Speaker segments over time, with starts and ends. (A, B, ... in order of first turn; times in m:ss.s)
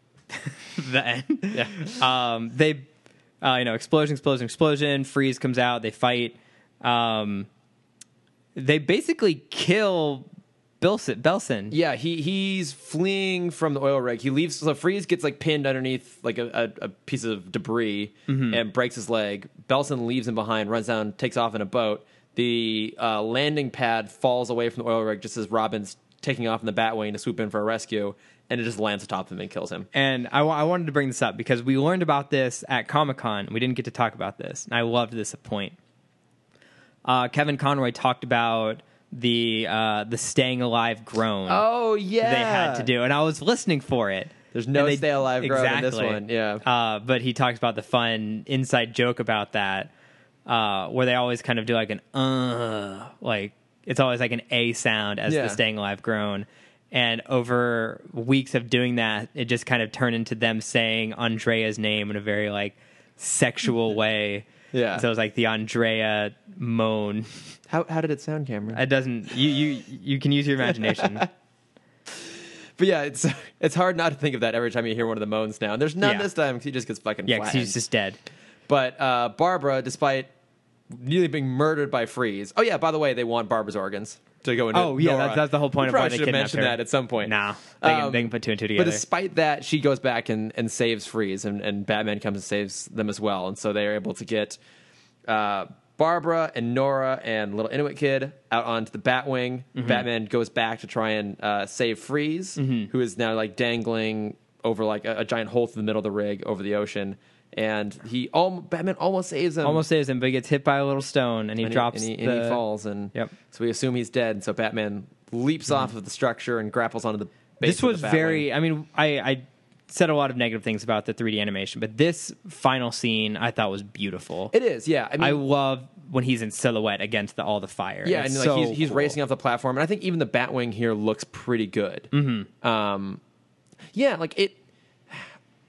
0:00.4-0:02.9 A
0:01.5-0:02.0 B
0:03.4-0:07.5 A
0:08.5-0:10.3 A
0:10.8-0:11.8 A
0:11.7-0:29.9 B
0:18.3-0:18.6 A
0:29.9-0:35.8 A
0:37.0-0:41.6 A
0:41.5-0:42.9 B
0:42.2-0:49.9 A
0:44.5-0:46.6 B
0:50.4-1:07.3 A
0:55.3-0:55.6 B
1:04.7-1:05.0 B
1:07.7-1:08.8 B
1:08.7-1:11.3 A
1:10.8-1:11.3 B
1:12.1-1:17.8 B
1:16.0-1:16.3 A
1:17.3-1:18.2 A
1:18.7-1:20.3 B
1:20.9-1:34.6 B
1:24.7-1:29.0 A
1:35.2-1:49.8 B
1:39.8-1:40.0 A
1:42.6-1:42.9 A
1:49.6-1:52.6 A
1:51.6-1:58.5 B
1:57.6-2:04.5 A
2:04.5-2:05.4 B
2:05.2-2:09.2 A
2:08.0-2:12.1 B
2:12.1-2:12.5 A
2:12.6-2:13.2 B
2:13.9-2:14.6 B